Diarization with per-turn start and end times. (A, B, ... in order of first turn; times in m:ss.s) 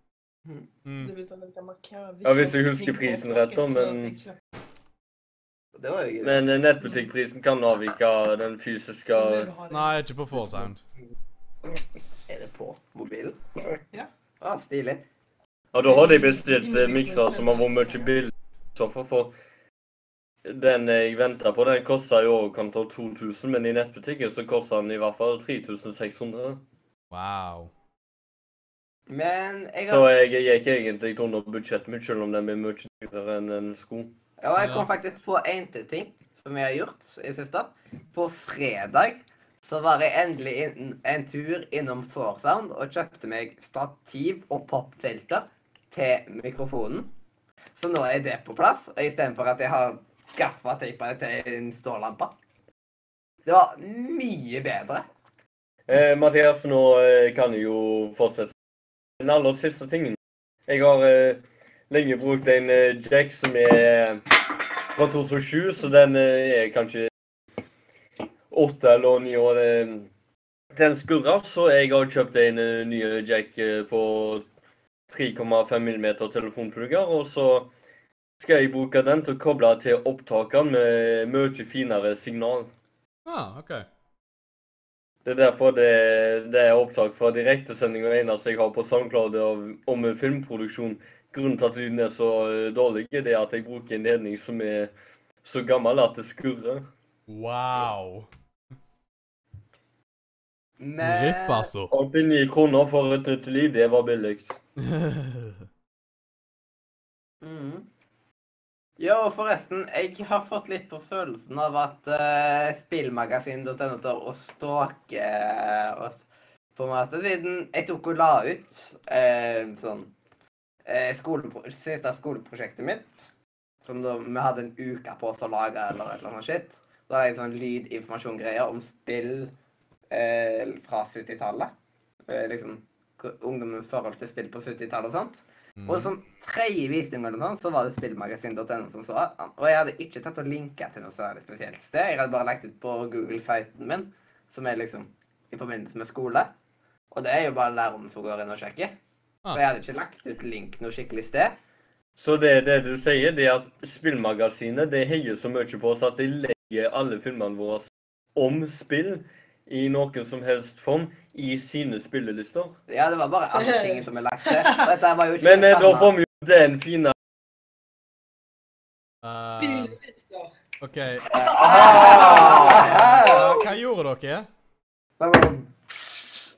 0:00.8-0:01.1 A
0:01.0-0:04.4 B
0:02.2-0:04.2 C
0:05.8-0:06.4 D
0:06.2-0:09.5 C
0:09.1-0:10.0 B
0:09.7-0:10.8 A
0:12.3-0:13.4 D
0:14.4-0:15.0 D
0:15.7-0:19.3 C
0:15.9-0:17.6 B
0:20.4-0:26.6 C
0:27.1-0:27.7 A
0:29.1-0:30.1 D
0:29.8-0:34.1 C
0:34.4-0:47.1 D
0:34.6-0:34.9 A
0:47.8-0:52.3 D
0:53.4-0:55.0 D
0:55.9-0:58.5 C
0:59.2-1:04.2 C
1:04.9-1:07.1 C
1:08.5-1:10.1 C
1:10.7-1:14.4 C
1:15.1-1:17.7 C
1:18.4-1:22.7 C
1:23.2-1:23.8 A
1:25.2-1:34.9 C
1:35.4-1:36.9 C
1:37.3-1:38.3 A
1:40.8-1:41.7 D
1:41.0-1:41.9 A
1:41.9-1:44.6 C
1:44.8-1:45.6 A
1:47.4-1:47.8 D
1:49.0-1:56.2 D
1:56.8-2:00.1 D
2:00.8-2:03.3 D
2:03.8-2:09.5 D
2:10.1-2:11.7 D
2:12.3-2:26.5 D
2:15.8-2:16.1 A
2:27.1-2:28.9 D
2:29.5-2:31.5 D
2:32.2-2:42.8 C
2:42.9-2:46.1 D
2:43.5-2:44.9 B
2:45.4-2:47.1 C
2:49.2-2:50.0 A
2:49.6-2:50.5 B
2:50.8-2:54.5 A
2:51.3-2:53.6 D
2:51.6-2:52.8 C
2:51.6-2:52.8 B
2:55.2-2:56.1 D